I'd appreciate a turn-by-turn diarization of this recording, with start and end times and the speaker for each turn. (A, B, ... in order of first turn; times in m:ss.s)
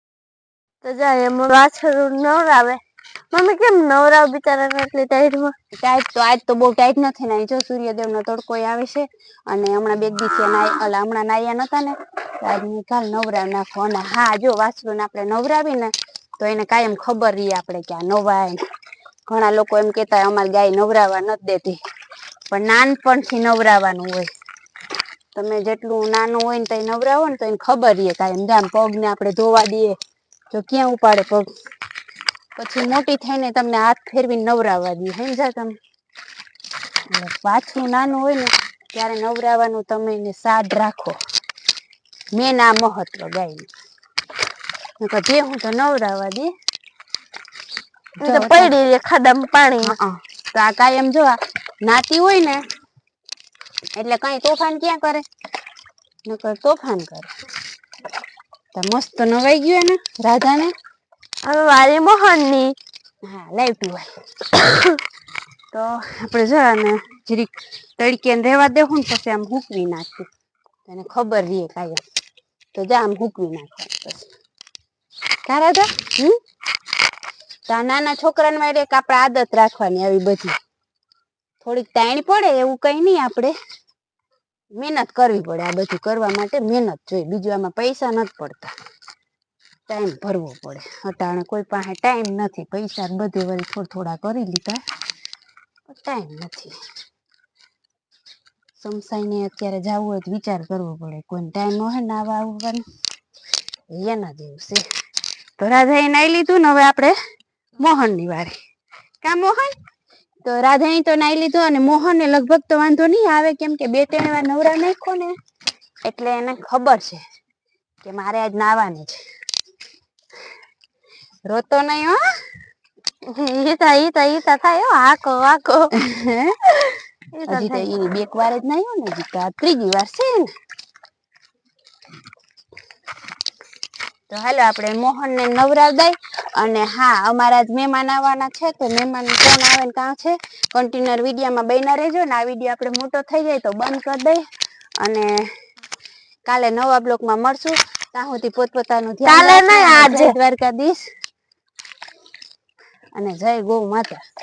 0:00.8-0:02.8 A
0:03.3-0:05.5 A
0:05.8-0:18.6 B
0:19.3-0:21.8 B
0:22.5-0:24.3 B
0:25.3-0:30.0 B
0:30.5-0:31.5 B
0:32.6-0:35.7 B
0:37.1-0:41.2 B
0:42.3-0:43.7 B
0:45.0-0:46.5 B
0:48.2-0:49.9 A
0:48.2-0:48.7 B
0:49.8-0:52.6 B
0:54.0-0:55.2 B
0:56.2-0:57.3 B
0:58.7-1:00.7 B
1:01.4-1:02.7 A
1:03.2-1:04.1 B
1:05.7-1:10.3 B
1:10.9-1:12.0 B
1:12.7-1:14.3 B
1:15.4-1:16.4 B
1:17.7-1:20.6 B
1:21.6-1:23.5 B
1:24.7-1:28.7 B
1:29.9-1:34.8 B
1:35.9-1:36.7 B
1:38.8-1:42.8 B
1:43.9-1:44.8 B
1:45.6-1:47.1 B
1:47.8-1:48.5 B
1:49.2-1:49.7 B
1:50.4-1:55.3 B
1:56.0-1:57.2 B
1:58.0-1:59.2 B
2:01.5-2:02.2 B
2:03.3-2:05.9 A
2:06.0-2:06.5 B
2:07.3-2:07.8 A
2:07.5-2:10.5 B
2:14.3-2:24.4 B
2:25.0-2:25.4 B
2:26.4-2:31.0 B
2:29.2-2:30.3 A
2:33.2-2:34.2 B